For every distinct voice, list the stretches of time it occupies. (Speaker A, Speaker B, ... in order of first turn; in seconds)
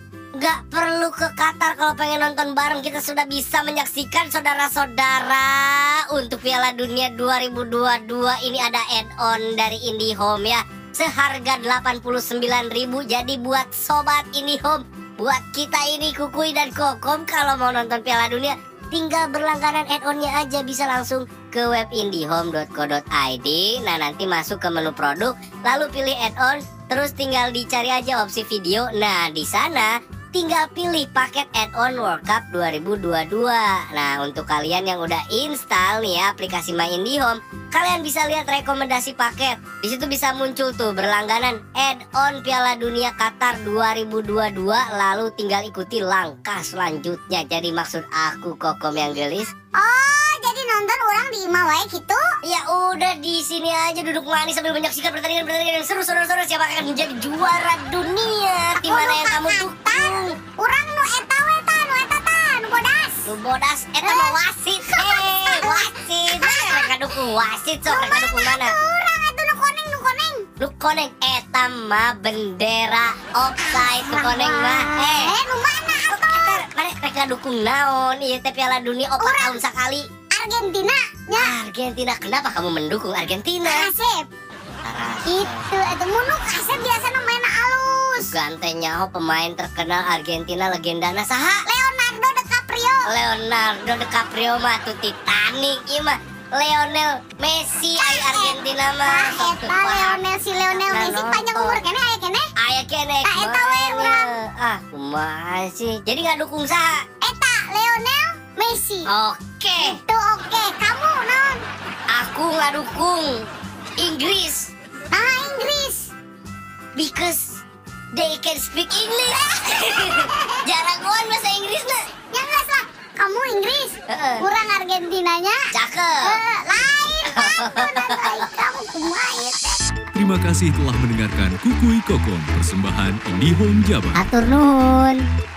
Speaker A: 0.4-49.5, 52.4-60.3, 63.2-68.7, 70.6-75.3, 76.1-80.0, 81.3-83.8, 84.8-85.7, 88.2-91.6, 93.1-100.2, 100.7-101.8, 102.6-107.0, 109.1-110.0, 112.1-113.3, 114.0-114.7, 117.0-117.6, 118.1-122.0, 124.1-124.5, 125.7-126.4, 127.3-128.4, 134.1-135.2
Speaker B: 49.8-52.2, 58.8-63.3, 64.0-66.9, 67.9-70.4, 73.6-76.6, 79.2-79.6, 80.3-81.5, 83.6-84.3, 85.2-88.3, 91.7-93.1, 97.9-102.5, 103.2-104.3, 107.2-109.1, 109.8-111.5, 115.1-116.1, 119.8-120.6, 122.3-125.6, 126.2-129.8
Speaker C: 130.1-134.2